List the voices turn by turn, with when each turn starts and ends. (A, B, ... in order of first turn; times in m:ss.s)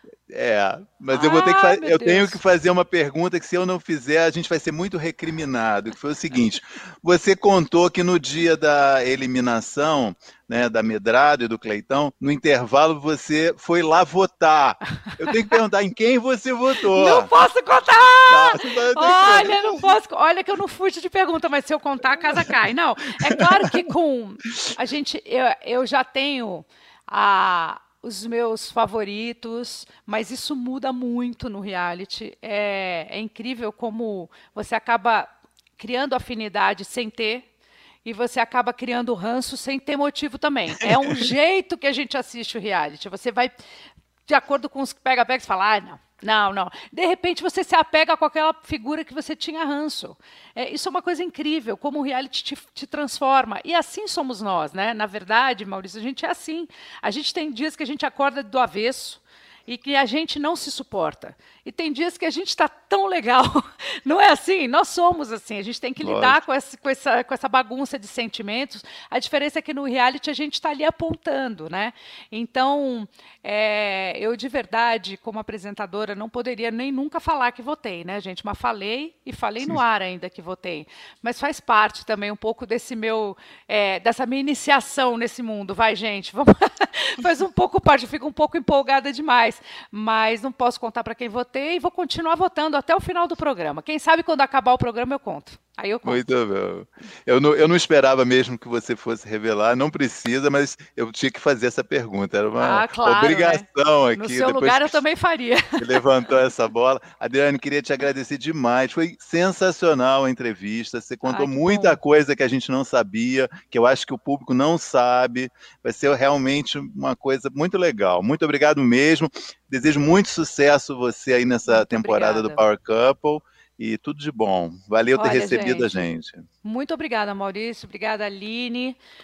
0:00.3-0:17.3 A
0:01.1-0:02.4 B
0:16.9-0:37.4 B
0:18.3-0:19.8 A
0:38.0-0:43.5 B
0:44.3-1:36.2 B
1:06.0-1:06.4 A
1:36.0-1:44.9 A
1:42.6-1:46.0 B
1:45.8-2:06.5 A
1:51.2-1:52.0 B
2:01.7-2:02.6 B
2:05.1-2:06.0 B
2:06.6-2:09.0 B